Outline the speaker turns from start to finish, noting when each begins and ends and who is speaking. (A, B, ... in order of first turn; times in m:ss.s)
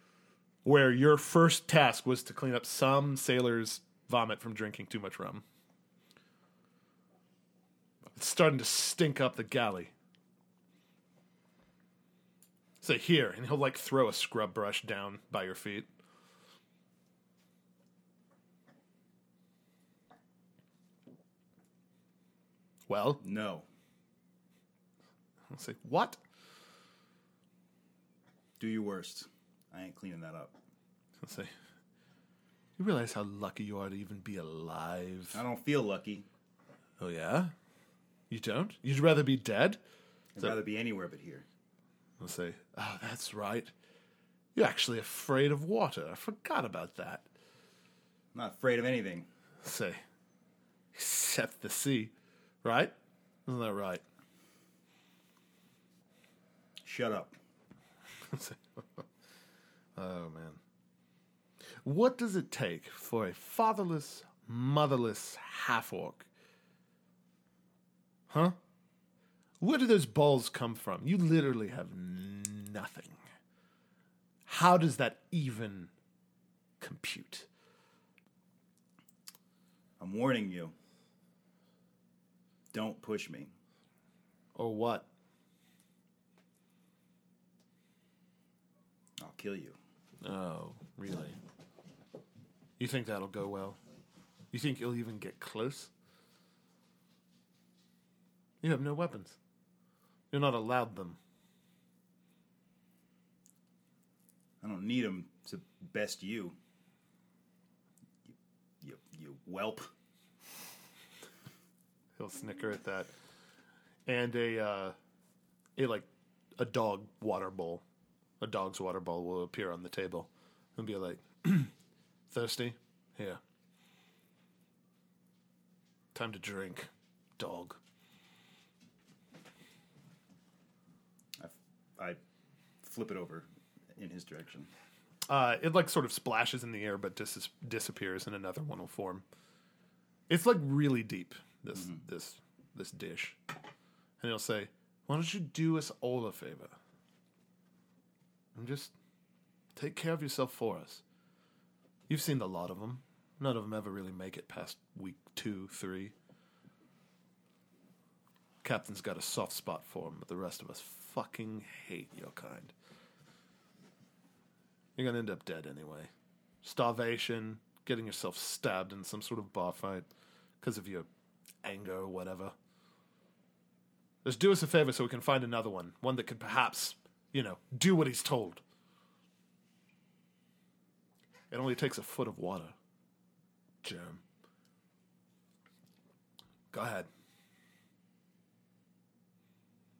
0:00.6-0:05.4 A
0:08.2-0:09.9 A
0:12.8-0:15.9 A
0:22.9-0:23.2 A
0:23.2-0:23.7 B
0:25.5-0:26.2 A
0:28.6-0:30.6 B
0:31.2-0:31.5 A
0:32.8-0:35.4 A
0:35.3-0:36.3 B
0:37.0-0:37.5 A
0:38.3-0:39.8 A
0:40.4-0:41.5 B
0:42.2-0:43.7 A
0:44.6-0:47.3 A
0:48.3-0:49.3 B
0:49.6-0:50.0 A
0:50.9-0:52.1 A
0:52.6-0:52.9 A
0:53.5-0:54.0 A
0:56.8-0:57.4 B
0:58.3-0:59.0 A
1:00.0-1:00.6 A
1:01.8-1:06.3 A
1:08.3-1:08.6 A
1:09.6-1:13.2 A
1:14.5-1:15.9 A
1:16.8-1:17.5 A
1:20.0-1:20.7 B
1:22.7-1:23.5 B
1:24.6-1:25.1 A
1:29.2-1:29.8 B
1:30.2-1:31.4 A
1:32.8-1:33.8 A
1:34.5-1:35.9 A
1:38.6-1:39.4 A
1:40.3-1:41.2 A
1:44.6-1:46.6 B
1:48.3-1:49.9 B
1:52.2-1:53.1 A
1:54.1-1:55.0 A
1:55.8-1:56.1 A
1:56.6-1:57.8 A
1:58.4-2:01.7 A
2:02.3-2:03.4 A
2:06.1-2:07.8 A
2:11.4-2:12.2 B
2:12.8-2:14.7 B
2:15.3-2:19.2 A
2:20.3-2:23.4 A
2:24.2-2:26.8 A
2:28.6-2:28.9 A
2:29.8-2:31.0 A
2:32.1-2:36.1 A
2:38.6-2:42.7 A
2:45.0-2:46.1 A
2:46.6-2:50.1 A
2:50.6-2:51.1 A
2:51.6-2:52.6 A
2:54.2-2:58.6 A
3:01.5-3:02.8 A
3:03.8-3:04.2 A
3:06.7-3:07.1 A